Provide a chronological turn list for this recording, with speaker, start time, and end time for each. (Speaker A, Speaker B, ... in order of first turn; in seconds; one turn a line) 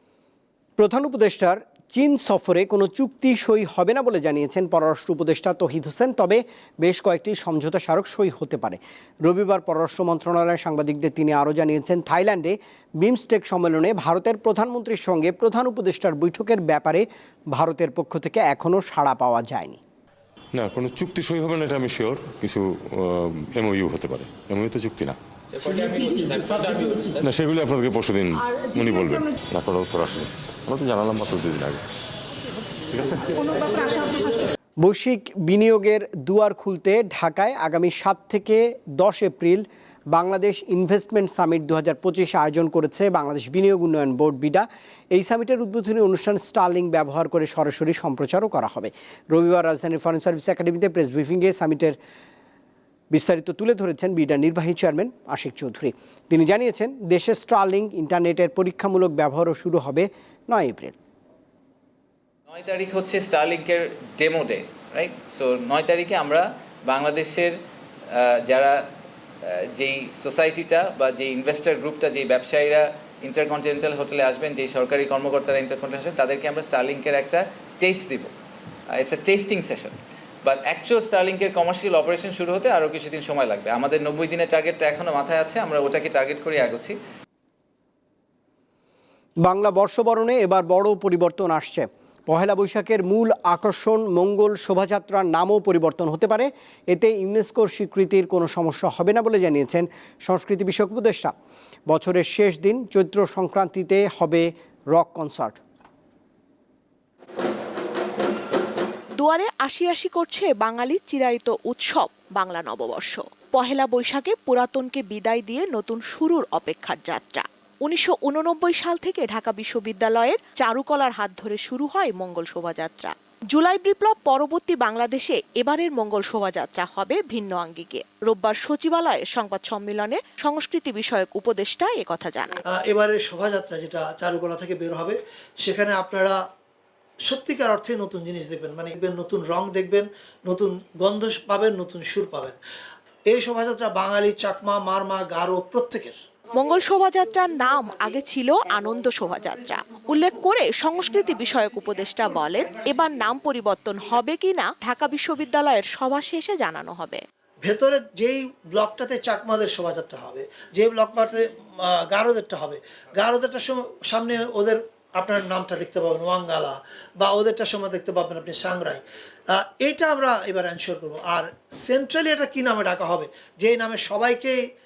Speaker A: 0.8-19.8
Speaker B: 20.5-25.2
Speaker C: 25.5-27.2
Speaker B: 27.2-31.8
Speaker B: 32.9-33.4
Speaker A: 34.8-52.0
Speaker A: 53.1-61.0
Speaker C: 62.5-67.5
Speaker C: 68.1-68.8
Speaker C: 69.4-78.3
Speaker C: 78.9-87.0
Speaker A: 89.4-101.3
Speaker A: 101.9-105.6
Speaker D: 109.2-132.6
Speaker E: 132.7-136.5
Speaker E: 137.2-142.6
Speaker E: 143.3-146.2
Speaker D: 146.5-157.2
Speaker E: 157.6-174.6